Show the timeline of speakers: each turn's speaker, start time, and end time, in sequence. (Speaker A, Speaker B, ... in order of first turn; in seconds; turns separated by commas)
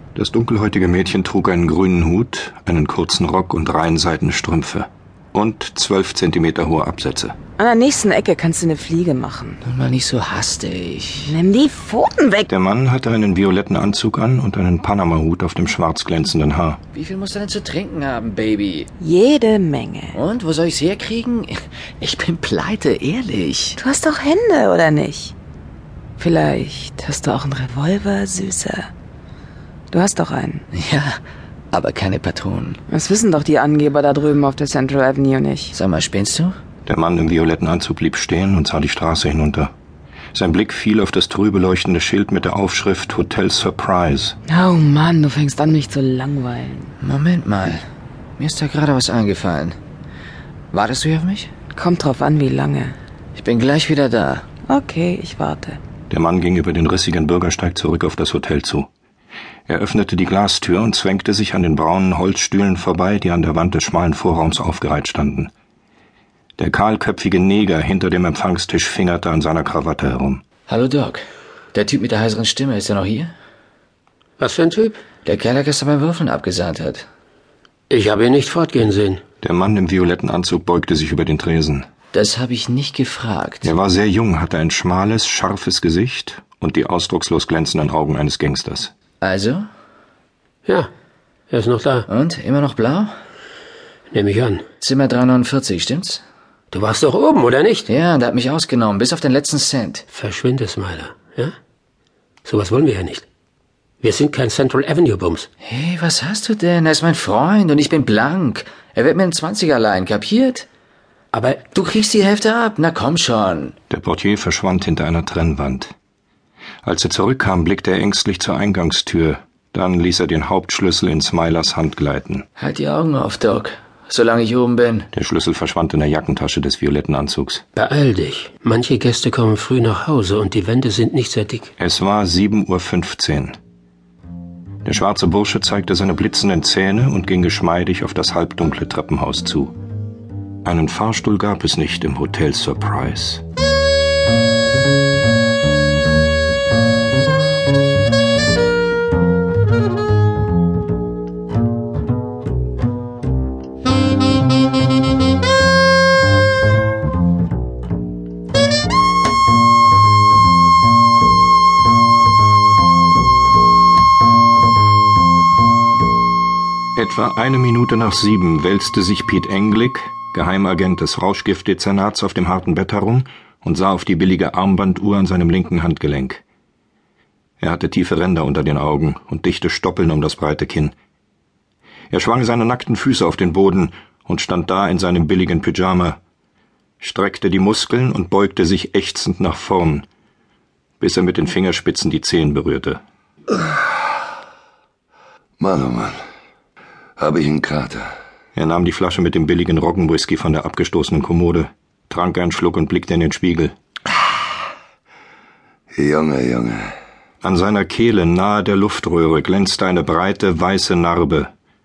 Speaker A: 0.1-7.3, Speaker B: 7.6-9.6, Speaker C: 9.6-11.3, Speaker B: 11.2-12.5, Speaker A: 12.5-16.8, Speaker C: 16.9-18.9, Speaker B: 19.0-20.2, Speaker C: 20.1-23.8, Speaker B: 23.8-25.3, Speaker B: 26.2-28.9, Speaker B: 29.9-30.6, Speaker C: 30.7-31.1, Speaker C: 31.7-32.8, Speaker B: 32.9-35.7, Speaker C: 35.7-36.5, Speaker A: 36.9-39.7, Speaker A: 40.3-44.3, Speaker B: 44.5-46.9, Speaker C: 47.0-47.8, Speaker C: 48.4-49.8, Speaker C: 50.7-51.5, Speaker B: 51.7-53.0, Speaker C: 53.4-54.4, Speaker B: 54.7-55.8, Speaker A: 56.1-58.9, Speaker A: 59.7-65.5, Speaker A: 66.6-70.4, Speaker C: 70.7-71.2, Speaker C: 71.7-73.3, Speaker D: 74.4-75.0, Speaker C: 75.2-77.0, Speaker D: 77.9-79.2, Speaker A: 79.4-81.8, Speaker C: 82.1-83.7, Speaker A: 83.6-88.9, Speaker C: 89.2-89.7, Speaker D: 91.5-92.0, Speaker C: 92.1-93.1, Speaker D: 94.1-94.6, Speaker C: 94.8-96.2, Speaker D: 96.7-97.9, Speaker C: 97.9-100.0, Speaker D: 100.1-101.5, Speaker D: 102.4-103.2, Speaker D: 104.0-105.5, Speaker C: 105.6-110.7, Speaker C: 111.6-113.7, Speaker A: 113.9-115.9, Speaker A: 116.8-122.4, Speaker C: 122.6-125.1, Speaker A: 125.1-127.6, Speaker D: 127.8-131.7, Speaker A: 131.8-133.6, Speaker A: 134.8-139.7, Speaker A: 140.6-143.4, Speaker A: 166.9-176.4, Speaker A: 177.6-180.9, Speaker A: 182.1-186.2, Speaker A: 187.0-190.1, Speaker A: 191.0-193.0, Speaker E: 195.6-196.2, Speaker E: 197.2-198.1, Speaker A: 198.6-203.7, Speaker E: 205.9-206.9, Speaker A: 207.4-211.5